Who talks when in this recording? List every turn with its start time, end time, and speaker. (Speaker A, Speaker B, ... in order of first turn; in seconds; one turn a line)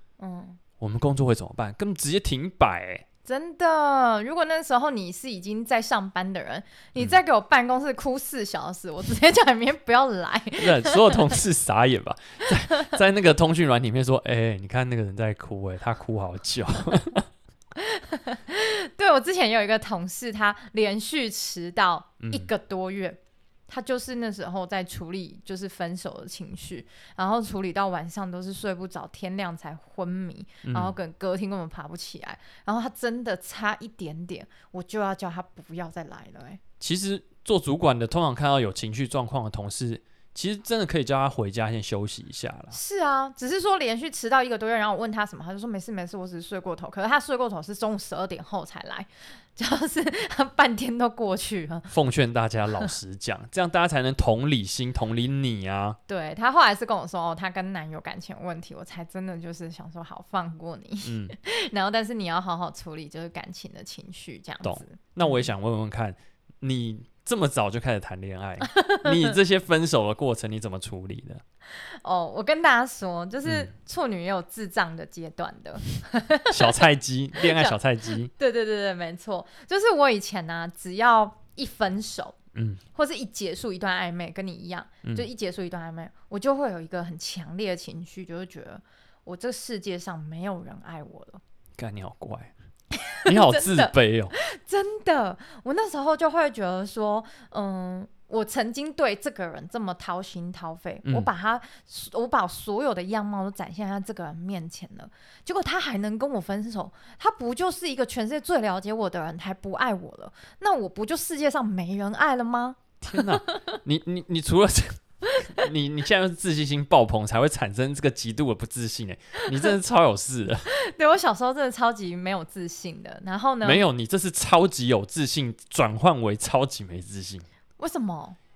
Speaker A: 0.2-0.6
Speaker B: 0.8-3.0
Speaker A: 3.2-11.4
Speaker B: 10.6-17.3
Speaker A: 17.8-36.6
Speaker B: 22.2-22.5
Speaker B: 30.6-30.9
Speaker B: 36.8-42.8
Speaker A: 42.7-51.9
Speaker B: 51.9-56.0
Speaker A: 56.1-65.5
Speaker B: 61.0-61.3
Speaker B: 64.6-71.4
Speaker A: 68.6-69.3
Speaker A: 71.8-76.8
Speaker B: 73.4-73.7
Speaker B: 76.5-78.3
Speaker A: 77.4-77.8
Speaker A: 78.3-82.4
Speaker B: 82.5-82.8
Speaker A: 82.9-91.4
Speaker B: 91.8-92.5
Speaker A: 92.9-113.7
Speaker B: 93.2-94.3
Speaker B: 113.0-120.7
Speaker A: 115.3-115.6
Speaker A: 120.7-123.9
Speaker B: 123.6-127.4
Speaker A: 127.8-128.4